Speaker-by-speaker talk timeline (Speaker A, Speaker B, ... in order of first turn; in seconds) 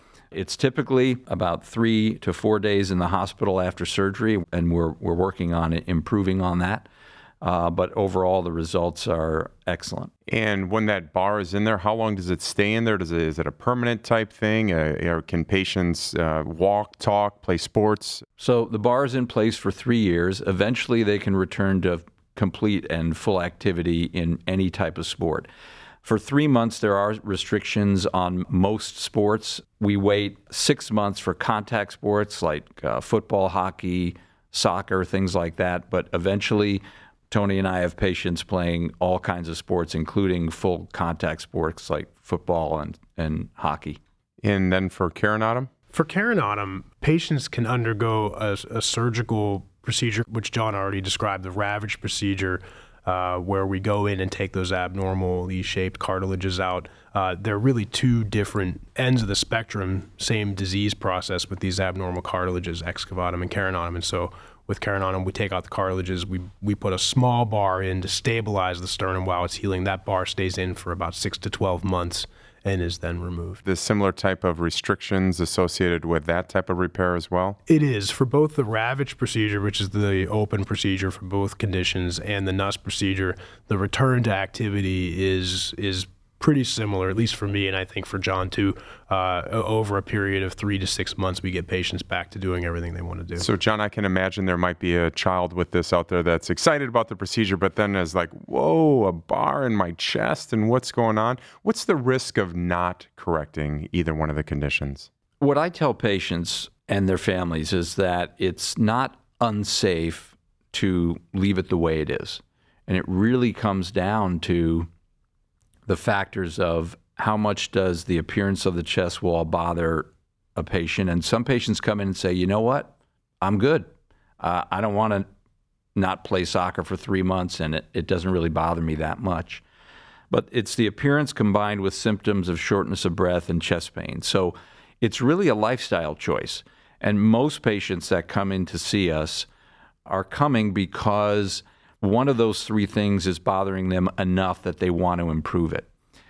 Speaker A: 0.3-6.9, 7.4-10.1, 18.4-25.5, 26.0-44.0, 105.4-114.9, 115.9-123.9, 124.4-125.3, 126.0-129.6, 130.3-139.5, 140.1-145.9
Speaker B: 10.3-18.2, 44.4-45.7, 73.7-77.6, 93.4-105.1
Speaker C: 45.9-73.6, 77.7-93.5